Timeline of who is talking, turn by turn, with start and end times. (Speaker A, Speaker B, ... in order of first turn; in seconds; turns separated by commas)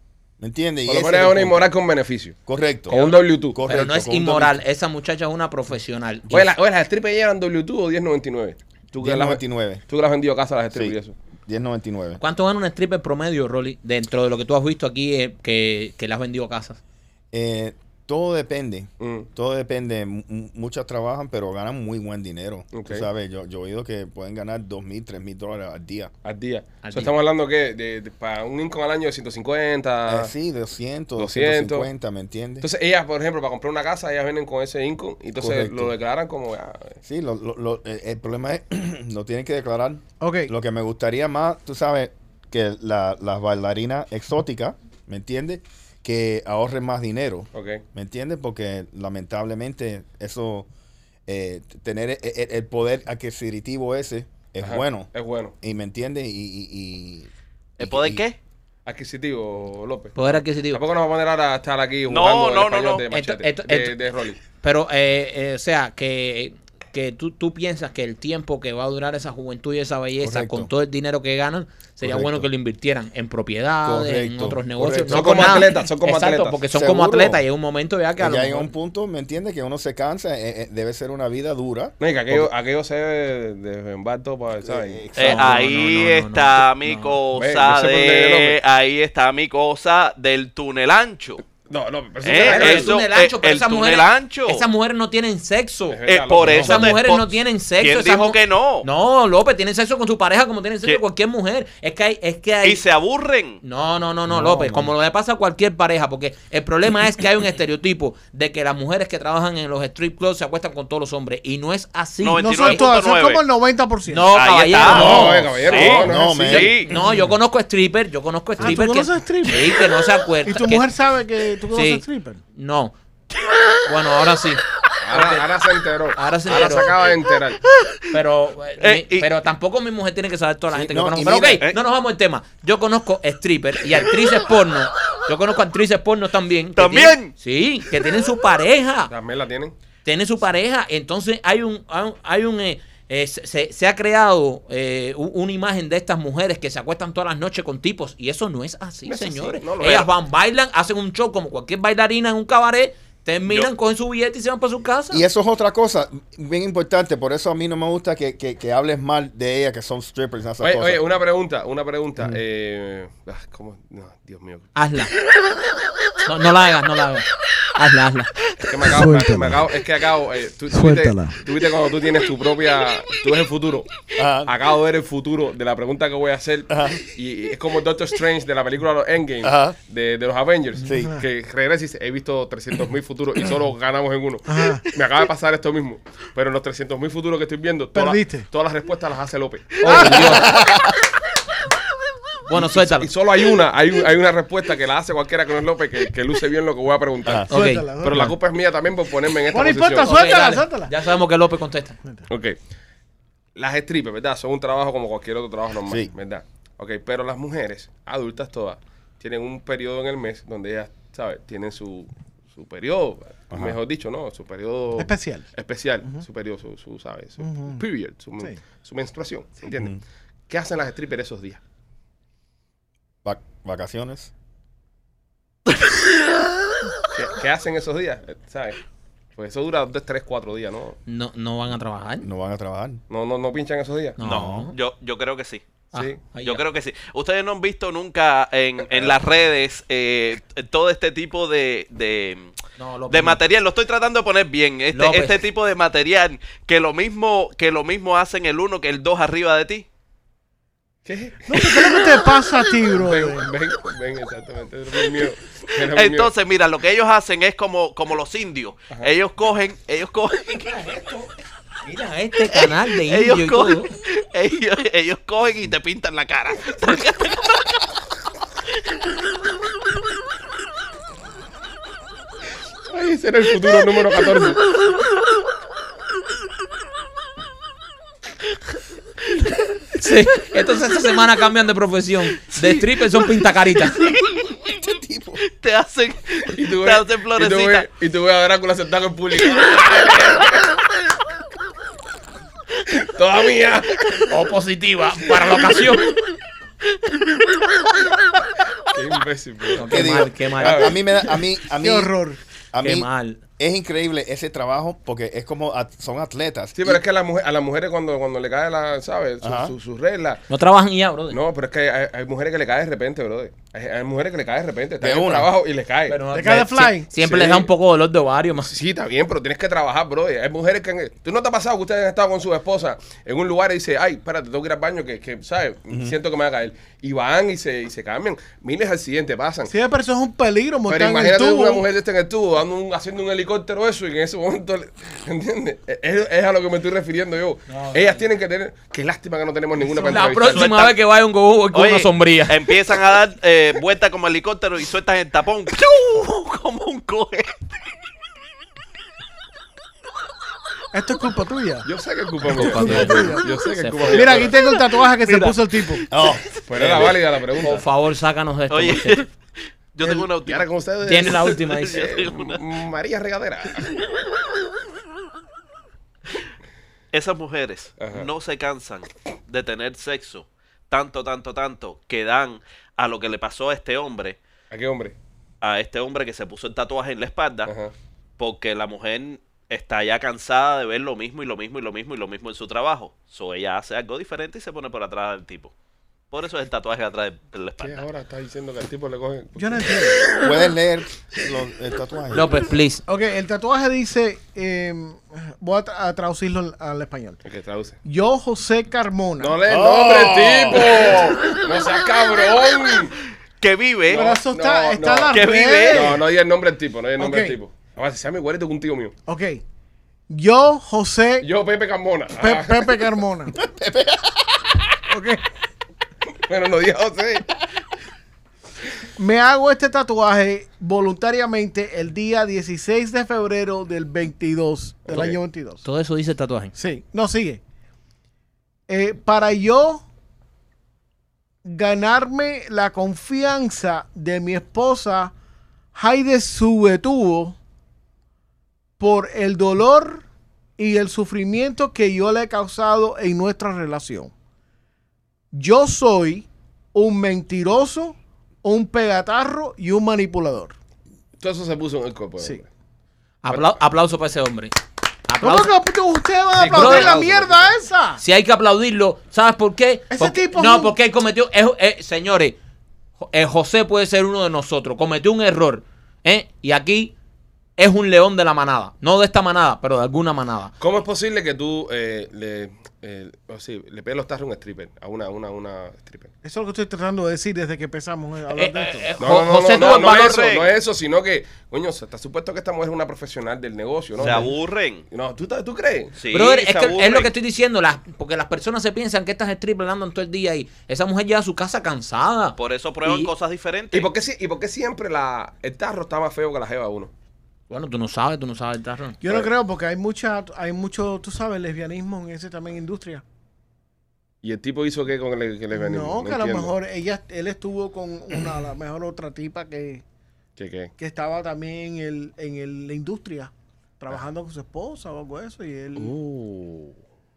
Speaker A: 0.4-1.7, Speaker B: 0.8-2.4, Speaker A: 2.5-4.6, Speaker B: 2.9-3.6, Speaker C: 2.9-6.4, Speaker B: 6.3-11.2, Speaker A: 9.0-9.8, Speaker A: 11.5-12.2, Speaker C: 12.2-16.8, Speaker A: 17.3-26.1, Speaker B: 19.0-19.3, Speaker B: 22.7-23.1, Speaker B: 26.2-30.3, Speaker C: 26.8-27.1, Speaker A: 30.1-32.7, Speaker B: 31.2-31.9, Speaker B: 32.6-37.0, Speaker A: 35.4-35.9, Speaker A: 37.0-50.7, Speaker D: 40.2-40.5, Speaker B: 47.5-47.8, Speaker A: 51.3-55.1, Speaker B: 54.6-55.5, Speaker A: 55.6-58.2, Speaker E: 57.8-58.4, Speaker B: 58.9-64.4, Speaker C: 60.2-60.8, Speaker E: 62.1-63.1, Speaker C: 63.1-64.0, Speaker C: 64.5-78.7, Speaker A: 70.2-70.7, Speaker A: 72.0-72.5, Speaker A: 73.8-75.6, Speaker B: 74.8-76.6, Speaker A: 76.7-77.4, Speaker A: 78.2-82.5, Speaker B: 82.0-85.1, Speaker A: 84.6-85.6, Speaker E: 85.2-91.4, Speaker C: 85.2-87.2, Speaker B: 87.3-88.6, Speaker B: 91.7-92.9, Speaker E: 92.2-94.7, Speaker C: 92.4-102.8, Speaker B: 95.9-96.8, Speaker E: 96.1-98.9, Speaker A: 96.4-96.8, Speaker E: 102.6-103.6, Speaker C: 103.6-112.9, Speaker A: 104.3-104.9, Speaker E: 112.2-113.4, Speaker D: 112.4-114.3, Speaker C: 114.1-115.9, Speaker E: 114.3-116.9, Speaker B: 114.8-116.6, Speaker A: 114.9-116.8, Speaker D: 115.8-117.3, Speaker C: 116.5-120.9, Speaker D: 118.6-122.4, Speaker C: 121.7-123.0, Speaker C: 123.8-125.5, Speaker B: 125.0-127.6, Speaker C: 126.2-127.0, Speaker C: 128.1-139.1, Speaker E: 128.8-129.3, Speaker A: 130.7-131.7, Speaker E: 136.8-137.3, Speaker B: 139.1-139.7, Speaker C: 140.0-155.2, Speaker B: 149.1-150.1, Speaker A: 155.1-161.0, Speaker B: 160.6-164.7, Speaker C: 164.8-165.1, Speaker C: 166.2-168.3, Speaker B: 168.6-190.1, Speaker D: 168.9-169.6, Speaker D: 170.7-171.4, Speaker A: 174.2-174.5, Speaker A: 176.7-177.0, Speaker A: 179.4-179.8, Speaker A: 180.8-181.2, Speaker D: 184.5-184.8, Speaker D: 187.9-188.5, Speaker C: 189.8-190.5, Speaker D: 189.9-190.6, Speaker A: 190.2-191.0, Speaker C: 192.5-193.1, Speaker B: 192.5-197.5, Speaker D: 197.5-198.3, Speaker C: 197.5-197.9, Speaker B: 198.0-200.1, Speaker D: 199.5-200.9, Speaker C: 200.0-202.0, Speaker B: 202.3-202.6, Speaker B: 203.6-220.0, Speaker A: 205.9-206.1, Speaker A: 213.5-213.8, Speaker D: 215.0-215.5, Speaker D: 217.4-217.8, Speaker A: 219.7-220.0, Speaker B: 220.5-221.6, Speaker A: 223.2-224.3, Speaker B: 227.1-228.8, Speaker B: 229.4-231.0, Speaker C: 231.1-232.3, Speaker A: 232.2-233.0, Speaker B: 233.1-234.2, Speaker C: 234.2-234.8, Speaker E: 234.2-235.6, Speaker A: 234.2-234.7, Speaker C: 235.9-236.6, Speaker E: 236.4-242.5, Speaker C: 242.8-243.4, Speaker E: 243.1-249.9, Speaker C: 244.9-245.4, Speaker B: 251.1-252.2, Speaker D: 251.5-253.5, Speaker B: 252.9-256.3, Speaker E: 255.9-260.8, Speaker C: 260.7-261.3, Speaker C: 261.8-263.9, Speaker E: 262.5-267.8, Speaker B: 272.9-274.6, Speaker C: 280.0-284.0, Speaker E: 282.5-282.9, Speaker E: 284.0-284.6, Speaker A: 284.7-285.4, Speaker E: 285.5-287.9, Speaker B: 286.5-290.8, Speaker B: 292.9-294.3, Speaker C: 294.3-296.1, Speaker B: 295.3-296.0, Speaker B: 298.9-301.0, Speaker C: 299.8-301.0, Speaker A: 299.9-302.1, Speaker D: 301.8-302.4, Speaker A: 302.7-303.1, Speaker C: 302.8-303.4, Speaker A: 303.6-307.0, Speaker B: 306.8-310.4, Speaker A: 309.4-309.7, Speaker C: 310.5-311.4, Speaker B: 311.3-316.2, Speaker A: 315.0-315.5, Speaker C: 316.1-318.7, Speaker D: 316.3-317.1, Speaker B: 317.2-317.7, Speaker B: 318.7-329.7, Speaker D: 329.7-331.9, Speaker B: 330.9-340.7, Speaker C: 337.7-338.2, Speaker C: 339.9-342.7, Speaker E: 340.4-340.9, Speaker E: 341.7-347.7, Speaker D: 350.9-351.9, Speaker B: 351.9-354.5, Speaker C: 352.5-354.4, Speaker D: 352.6-353.5, Speaker D: 354.1-356.1, Speaker C: 355.3-355.5, Speaker E: 356.0-356.3, Speaker A: 356.1-357.1, Speaker B: 356.7-357.8, Speaker C: 357.6-359.2, Speaker E: 358.7-359.3, Speaker E: 359.9-360.7, Speaker B: 360.4-364.0, Speaker C: 361.1-362.1, Speaker E: 361.2-362.6, Speaker E: 367.1-374.4, Speaker B: 368.0-368.3, Speaker B: 374.7-375.2, Speaker E: 375.6-377.7, Speaker B: 377.7-377.9, Speaker E: 378.4-385.7, Speaker E: 386.3-388.1, Speaker B: 387.8-389.9, Speaker D: 389.6-390.4, Speaker A: 390.4-392.5, Speaker C: 392.3-393.0, Speaker D: 393.1-397.4, Speaker B: 397.4-398.0, Speaker D: 398.0-399.6, Speaker B: 399.4-403.2, Speaker A: 399.7-401.3, Speaker E: 403.6-404.2, Speaker B: 404.1-409.1, Speaker D: 404.1-406.2, Speaker E: 405.3-406.2, Speaker D: 407.2-407.6, Speaker D: 409.3-409.6, Speaker D: 410.3-411.5, Speaker B: 411.4-413.1, Speaker D: 412.4-413.6, Speaker A: 413.5-414.7, Speaker D: 415.1-415.4, Speaker B: 416.5-417.5, Speaker D: 419.2-425.9, Speaker B: 425.1-425.4, Speaker C: 425.1-426.8, Speaker D: 426.8-427.6, Speaker D: 428.9-430.0, Speaker D: 431.6-435.3, Speaker D: 435.9-437.6, Speaker D: 439.0-440.2, Speaker D: 440.8-444.3, Speaker D: 445.5-450.7, Speaker B: 451.4-452.7, Speaker C: 453.4-454.7, Speaker C: 455.3-455.7, Speaker D: 455.4-458.2, Speaker B: 456.5-457.7, Speaker C: 456.7-457.2, Speaker C: 458.2-462.6, Speaker D: 460.1-460.9, Speaker C: 463.2-467.1, Speaker C: 467.8-470.7, Speaker B: 470.8-476.3, Speaker D: 476.4-479.1, Speaker C: 478.5-480.5, Speaker B: 479.2-484.5, Speaker E: 479.7-480.7, Speaker E: 484.2-485.1, Speaker B: 485.1-486.2, Speaker E: 486.2-487.3, Speaker C: 486.3-493.3, Speaker E: 492.6-494.1, Speaker B: 493.9-497.1, Speaker C: 497.7-499.2, Speaker D: 499.2-503.2, Speaker B: 504.4-506.7, Speaker D: 505.7-510.0, Speaker B: 510.6-510.9, Speaker D: 511.0-516.1, Speaker B: 516.0-516.9